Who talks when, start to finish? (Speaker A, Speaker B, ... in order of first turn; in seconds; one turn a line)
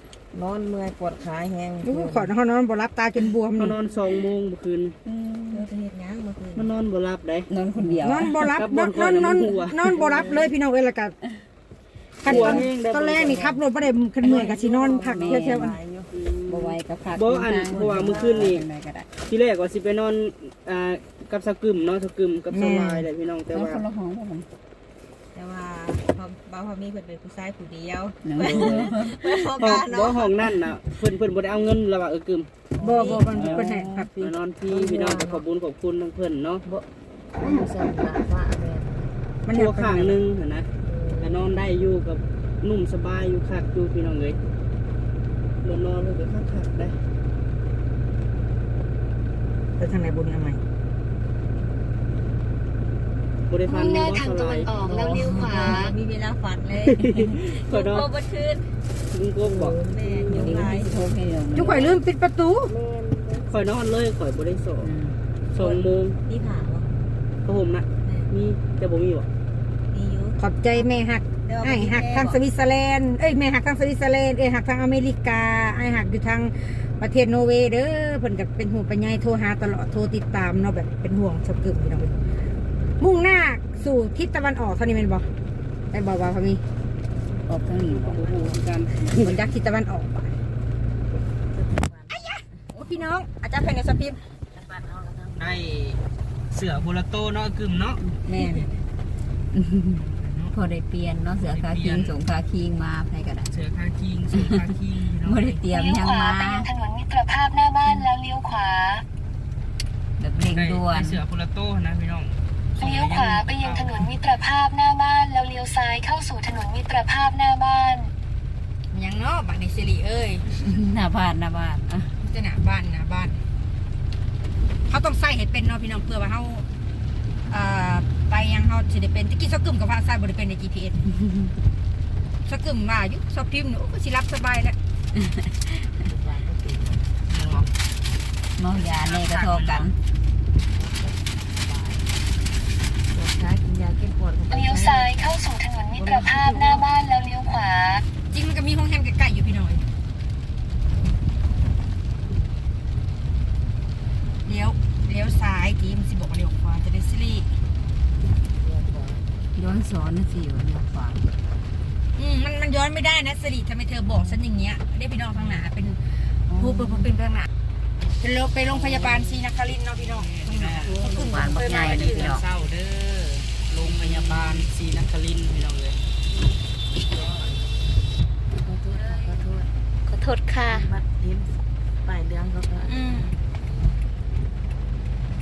Speaker A: 0.3-2.3
Speaker B: 1.8-3.8
Speaker C: 3.6-5.0
Speaker D: 5.1-5.7
Speaker A: 5.5-6.8
Speaker C: 6.5-8.0
Speaker D: 7.5-8.4
Speaker B: 8.0-11.2
Speaker C: 8.5-10.4
Speaker A: 9.9-10.4
Speaker B: 12.2-15.8
Speaker C: 12.2-13.6
Speaker D: 12.3-12.6
Speaker A: 14.2-16.1
Speaker D: 15.1-15.8
Speaker C: 16.1-18.7
Speaker D: 16.5-19.1
Speaker A: 17.7-18.5
Speaker C: 19.3-23.9
Speaker B: 22.5-23.1
Speaker D: 23.5-24.5
Speaker A: 25.3-30.6
Speaker D: 28.2-29.4
Speaker C: 28.4-28.9
Speaker C: 29.5-32.5
Speaker A: 32.8-35.4
Speaker B: 32.8-34.1
Speaker C: 33.3-36.6
Speaker A: 37.4-39.2
Speaker B: 39.5-40.2
Speaker C: 39.5-44.4
Speaker A: 40.9-41.6
Speaker C: 45.6-47.0
Speaker B: 49.8-50.6
Speaker C: 53.5-54.7
Speaker E: 53.7-56.0
Speaker A: 54.9-57.1
Speaker C: 56.8-58.1
Speaker D: 57.1-58.7
Speaker C: 59.1-60.6
Speaker A: 59.5-61.1
Speaker D: 60.3-62.0
Speaker B: 61.5-62.7
Speaker A: 62.8-63.5
Speaker C: 63.4-64.9
Speaker D: 64.8-65.2
Speaker C: 65.5-66.2
Speaker A: 65.6-66.9
Speaker C: 67.5-69.3
Speaker A: 68.0-68.3
Speaker A: 69.9-70.8
Speaker B: 70.4-82.1
Speaker A: 71.5-72.4
Speaker B: 83.0-85.3
Speaker B: 85.9-86.6
Speaker A: 87.4-88.8
Speaker D: 87.5-88.2
Speaker C: 87.9-89.4
Speaker B: 89.2-90.4
Speaker A: 91.5-92.5
Speaker B: 92.1-94.2
Speaker A: 94.5-95.7
Speaker C: 95.3-98.0
Speaker D: 98.2-98.7
Speaker B: 98.3-98.7
Speaker D: 99.5-103.5
Speaker C: 99.9-100.5
Speaker C: 101.4-102.2
Speaker C: 103.5-105.6
Speaker D: 104.3-104.7
Speaker D: 105.2-106.7
Speaker E: 105.7-109.0
Speaker D: 110.2-111.2
Speaker C: 110.5-114.2
Speaker E: 112.8-118.1
Speaker B: 118.9-120.5
Speaker D: 120.6-122.1
Speaker B: 122.2-123.4
Speaker B: 124.9-126.7
Speaker B: 127.5-131.1
Speaker B: 132.5-134.8
Speaker A: 136.0-137.4
Speaker C: 137.3-137.7
Speaker D: 138.6-140.0
Speaker C: 139.2-139.9
Speaker A: 140.7-142.0
Speaker A: 143.1-145.2
Speaker E: 144.5-148.1
Speaker A: 146.1-146.8
Speaker B: 148.3-149.9
Speaker B: 154.4-157.5
Speaker A: 158.6-159.3
Speaker D: 159.5-161.3
Speaker B: 162.2-167.5
Speaker B: 168.2-170.3
Speaker A: 168.9-169.3
Speaker C: 170.0-171.0
Speaker D: 170.4-172.4
Speaker B: 171.0-172.3
Speaker C: 171.7-176.0
Speaker A: 173.8-174.5
Speaker A: 178.6-179.7
Speaker D: 180.1-180.9
Speaker A: 180.7-183.4
Speaker B: 182.8-183.3